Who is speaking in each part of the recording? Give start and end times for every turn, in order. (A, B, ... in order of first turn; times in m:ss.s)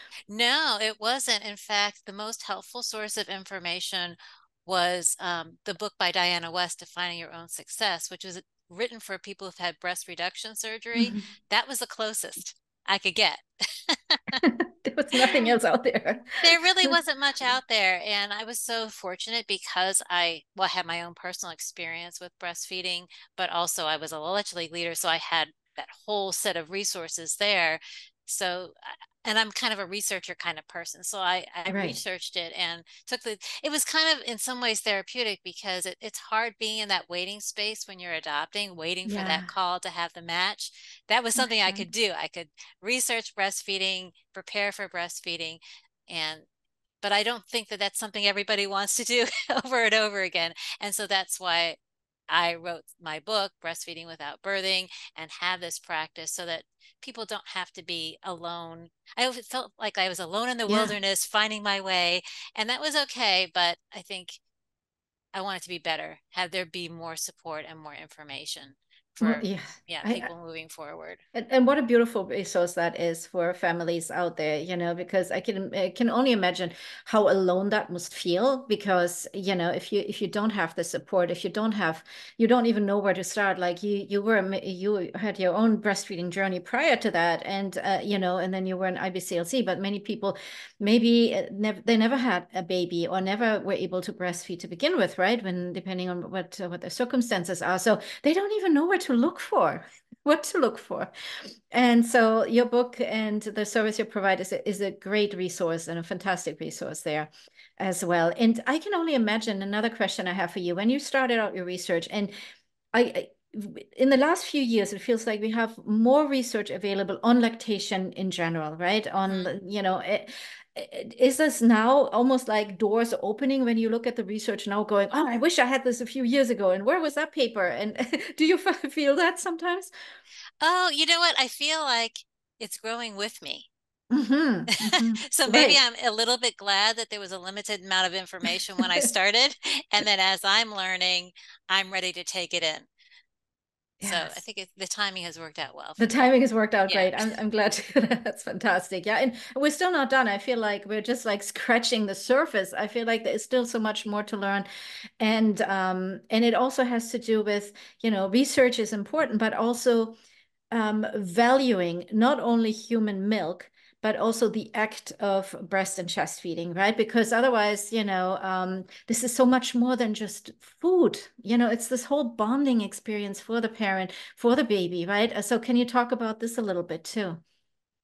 0:00.3-0:14.4 A
0:11.0-0:11.2 B
0:14.4-0:16.9 B
0:16.4-0:46.4 A
0:31.7-0:32.0 B
0:39.0-0:39.5 B
0:41.4-0:41.9 B
0:47.0-1:04.4 A
1:00.7-1:01.0 B
1:05.3-1:11.2 A
1:09.2-1:10.3 B
1:11.3-1:41.1 B
1:41.7-1:52.3 B
1:52.9-2:09.9 B
1:59.3-1:59.5 A
2:10.6-2:13.7 A
2:14.1-2:15.8 B
2:14.8-2:22.9 A
2:24.0-2:24.4 B
2:24.0-2:26.1 A
2:26.0-2:34.7 B
2:26.9-2:27.1 A
2:35.2-2:40.1 B
2:40.7-2:57.4 B